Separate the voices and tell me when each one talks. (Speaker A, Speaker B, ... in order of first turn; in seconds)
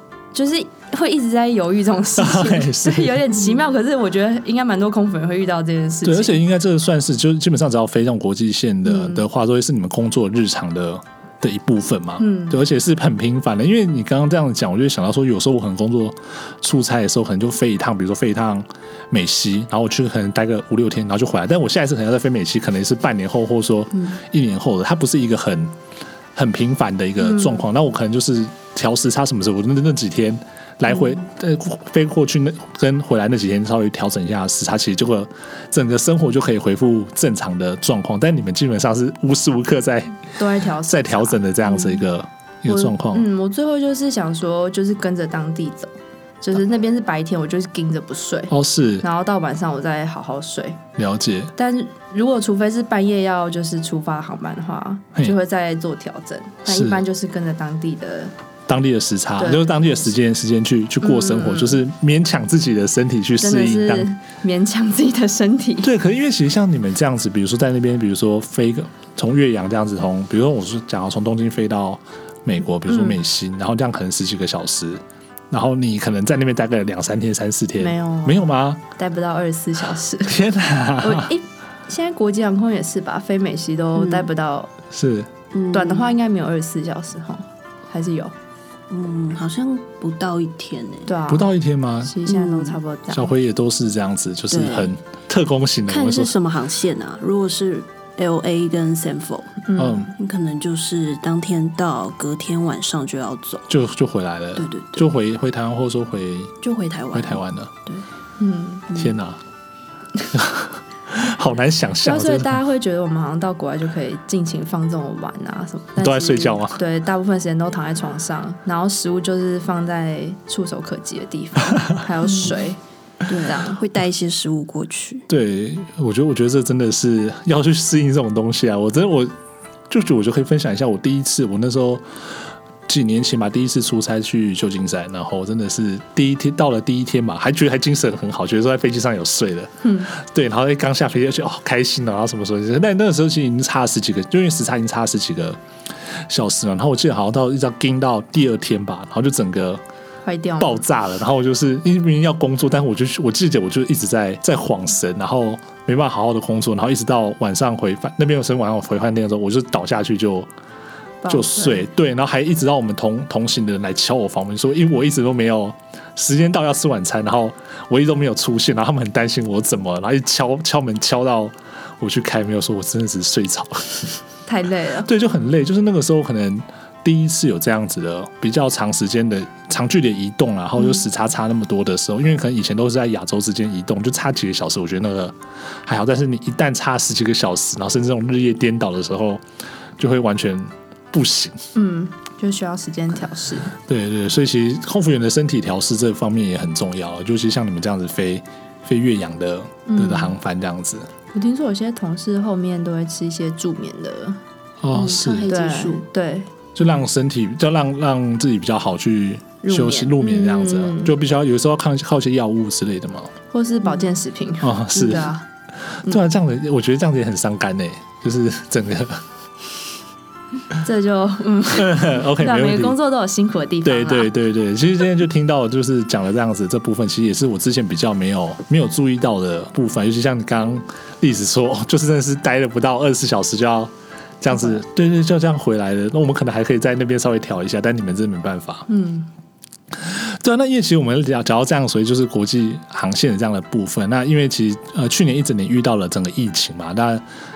Speaker A: 0.3-6.4, 8.8-9.2, 12.2-12.6, 27.2-27.6, 40.4-42.0, 42.7-50.8, 51.6-58.3, 59.4-59.7, 61.0-61.8, 63.4-65.9, 72.9-73.2, 77.8-80.4, 81.0-84.7, 85.7-88.3, 91.1-91.5, 92.0-93.3, 99.7-100.1, 108.4-108.9, 112.0-122.8, 123.5-123.8, 139.8-140.1, 150.2-150.8, 161.2-161.8, 174.5-175.1, 191.8-193.7, 199.9-200.3, 201.3-204.4, 205.5-206.5, 209.6-211.2, 213.5-215.4, 220.8-224.3, 234.5-234.8, 238.9-239.3
Speaker B: 2.2-3.2, 6.0-25.7, 26.4-43.2, 48.5-49.0, 51.0-51.5, 56.7-57.0, 58.7-64.1, 65.8-78.8, 80.2-81.3, 84.9-85.3, 91.3-92.2, 93.1-96.3, 99.8-100.1, 103.7-106.5, 107.1-107.7, 109.0-109.4, 110.3-112.6, 116.0-116.8, 125.3-129.3, 129.9-145.6, 146.1-149.8, 150.6-160.5, 161.3-174.1, 175.1-189.4, 190.0-191.6, 193.8-201.1, 204.8-205.5, 206.8-213.3, 214.6-215.3, 216.0-219.2, 221.8-223.0, 223.8-238.9, 239.9-247.2
Speaker C: 84.0-84.3, 85.5-86.2, 88.9-91.1, 92.3-92.8, 94.5-94.9, 95.9-103.7, 104.6-105.1, 106.6-108.0, 108.9-109.2, 122.2-122.5, 123.3-125.3, 204.9-206.1, 214.9-215.3